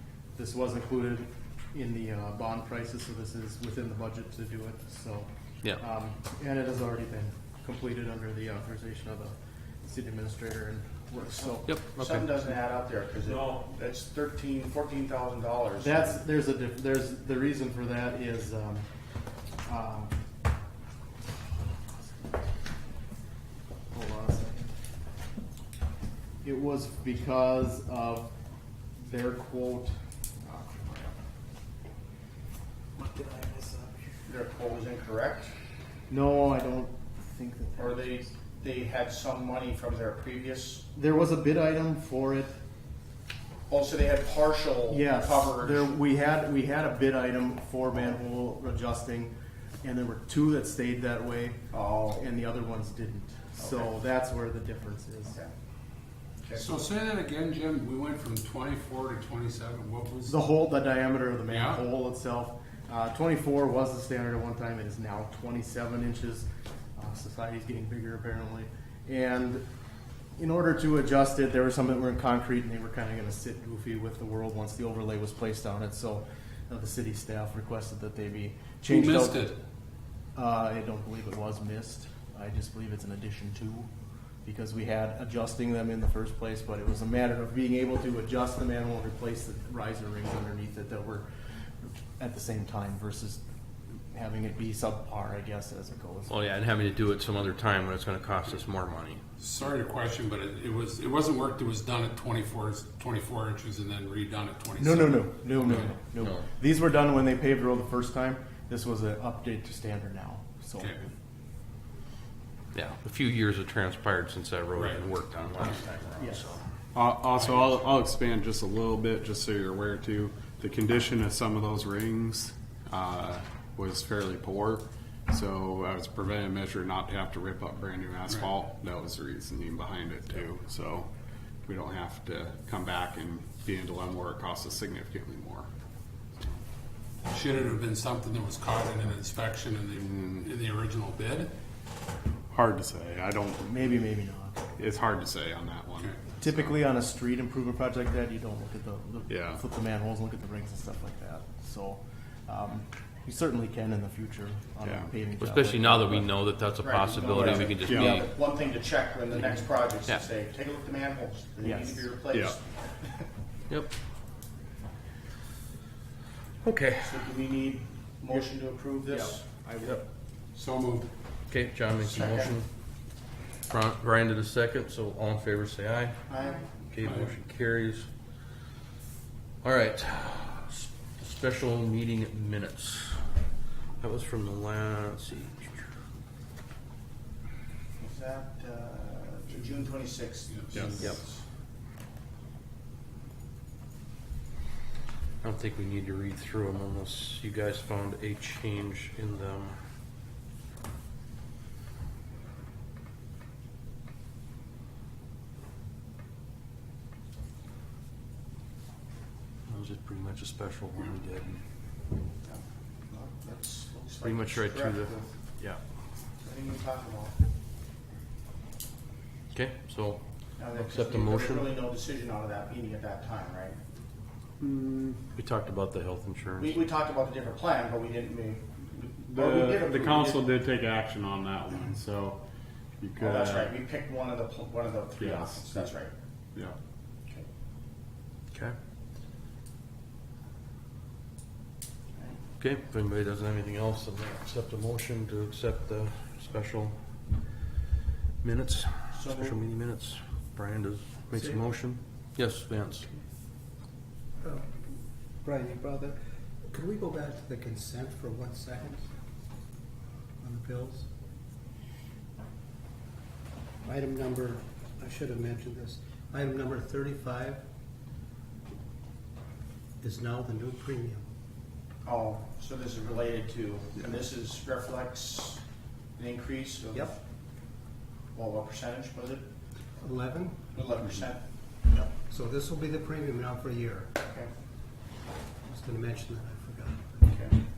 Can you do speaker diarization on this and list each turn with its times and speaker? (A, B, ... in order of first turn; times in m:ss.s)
0:00.4-0:11.7 A
0:11.3-0:16.2 B
0:11.6-0:12.2 C
0:15.8-0:18.9 A
0:19.6-0:20.1 A
0:23.9-0:24.7 A
0:26.4-0:28.3 A
0:29.0-0:31.2 A
0:33.0-0:34.2 A
0:34.2-0:35.5 B
0:36.1-0:38.3 A
0:37.8-0:40.8 B
0:40.9-0:42.6 A
0:43.7-0:45.9 B
0:44.9-0:55.4 A
0:51.7-0:52.2 B
0:53.6-0:53.9 B
0:56.6-1:00.4 D
1:00.3-1:09.6 A
1:01.5-1:01.8 D
1:10.4-1:19.5 A
1:18.9-1:19.6 D
1:20.3-1:23.9 A
1:24.4-1:31.3 A
1:31.8-1:33.4 A
1:34.1-1:36.3 A
1:36.3-1:39.2 C
1:39.4-1:45.4 D
1:44.8-1:51.1 A
1:45.7-1:46.4 C
1:50.8-1:51.0 D
1:52.7-1:56.6 C
1:54.7-1:55.0 D
1:56.9-2:11.1 E
1:57.4-1:57.8 C
2:11.6-2:15.7 E
2:17.2-2:21.5 D
2:22.5-2:23.7 E
2:23.6-2:24.7 A
2:24.8-2:26.8 E
2:26.4-2:36.3 A
2:29.3-2:29.6 E
2:34.8-2:35.1 E
2:35.4-2:38.3 C
2:36.8-2:43.3 B
2:37.8-2:38.2 E
2:41.6-2:42.0 A
2:46.6-2:47.3 C
2:47.0-2:49.4 B
2:49.0-2:50.0 A
2:50.5-2:51.1 D
2:51.5-2:52.7 C
2:52.0-2:52.5 B
2:53.7-2:56.2 C
2:56.3-2:56.8 B
2:56.8-2:58.1 C
2:57.0-2:57.3 D
2:59.6-3:03.2 C
3:04.0-3:05.9 C
3:08.0-3:11.4 B
3:10.5-3:10.8 D
3:10.7-3:11.0 E
3:15.4-3:19.8 C
3:29.7-3:31.6 C
3:32.4-3:35.3 B
3:34.2-3:35.8 C
3:36.4-3:37.3 B
3:39.5-3:41.7 C
3:40.6-3:43.8 B
3:44.6-3:45.2 E
3:45.3-3:46.8 C
3:46.6-3:50.4 B
3:49.3-3:52.4 E
3:53.0-3:53.7 E
3:53.2-3:56.1 B
3:55.2-3:55.9 E
4:02.2-4:02.4 B
4:02.6-4:07.0 C
4:08.4-4:13.1 C
4:09.1-4:09.6 B
4:11.3-4:11.6 F
4:14.4-4:14.7 F
4:15.4-4:16.2 F
4:16.7-4:19.0 F
4:20.4-4:21.0 F
4:23.8-4:27.6 F
4:30.0-4:31.3 F
4:32.0-4:35.6 B
4:36.2-4:37.2 B
4:38.3-4:39.4 B
4:40.0-4:40.6 F
4:40.7-4:41.4 B
4:41.9-4:44.1 F
4:44.2-4:44.5 B
4:45.6-4:47.3 F
4:47.2-4:47.6 B